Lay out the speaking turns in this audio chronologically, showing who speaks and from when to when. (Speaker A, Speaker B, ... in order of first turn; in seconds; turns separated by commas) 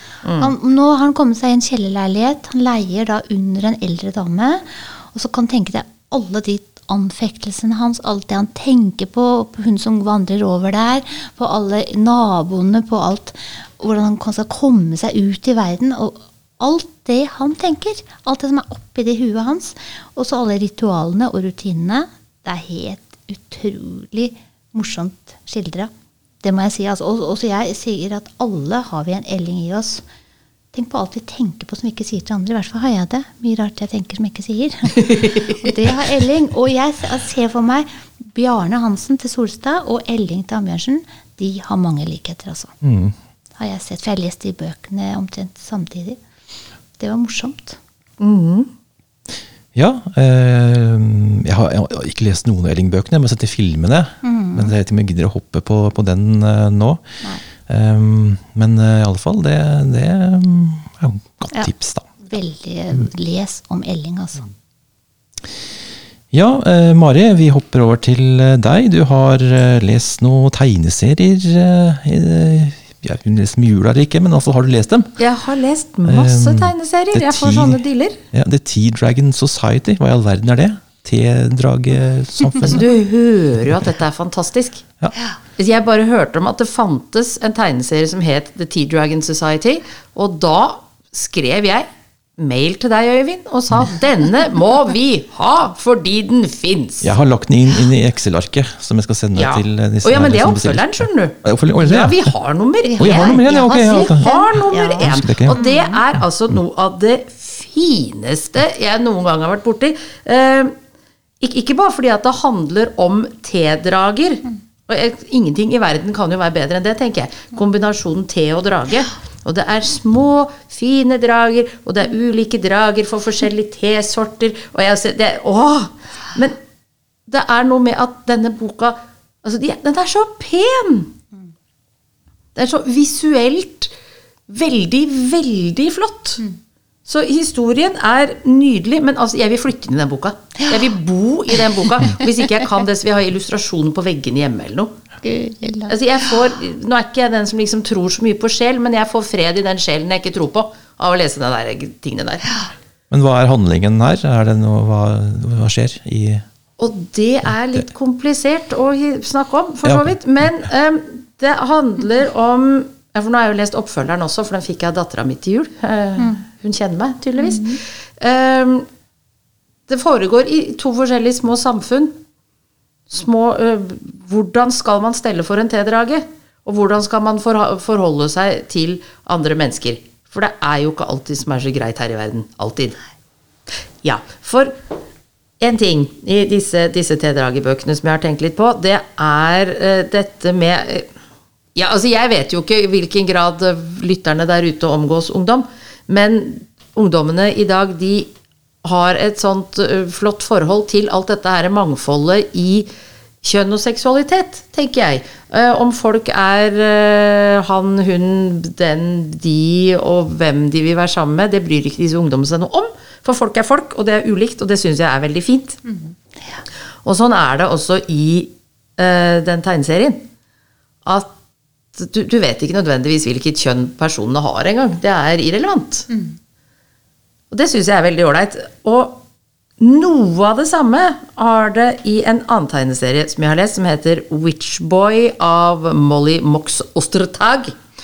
Speaker A: 0.2-0.5, Speaker B: 0.4-25.9, Speaker B: 26.4-30.0, Speaker B: 30.7-42.7, Speaker C: 42.8-43.1, Speaker B: 43.6-46.2, Speaker B: 47.0-47.8, Speaker A: 48.2-48.7, Speaker C: 49.8-57.0, Speaker B: 54.2-54.7, Speaker C: 57.7-62.2, Speaker B: 62.2-64.5, Speaker C: 66.3-75.1, Speaker A: 75.2-78.2, Speaker C: 76.1-77.8, Speaker C: 78.3-82.9, Speaker A: 82.6-84.8, Speaker A: 85.6-91.9, Speaker A: 92.4-97.1, Speaker C: 97.0-102.3, Speaker A: 99.3-110.7, Speaker B: 102.8-106.0, Speaker C: 103.0-105.6, Speaker A: 111.4-126.6, Speaker A: 127.3-131.1, Speaker A: 132.6-133.9, Speaker A: 134.5-136.4, Speaker A: 137.1-144.9, Speaker B: 145.2-146.0, Speaker A: 145.9-152.5, Speaker C: 153.1-156.4, Speaker A: 156.8-168.9, Speaker C: 159.8-160.2, Speaker B: 167.4-167.8, Speaker A: 169.9-172.2, Speaker A: 173.1-183.0, Speaker A: 184.0-184.8, Speaker A: 185.6-191.1, Speaker A: 191.8-198.3, Speaker A: 198.8-202.9, Speaker A: 203.4-215.8, Speaker B: 215.9-216.6, Speaker A: 217.0-220.3, Speaker A: 221.1-221.3, Speaker A: 221.9-226.1, Speaker B: 226.1-226.4, Speaker A: 227.5-229.2, Speaker A: 229.8-237.8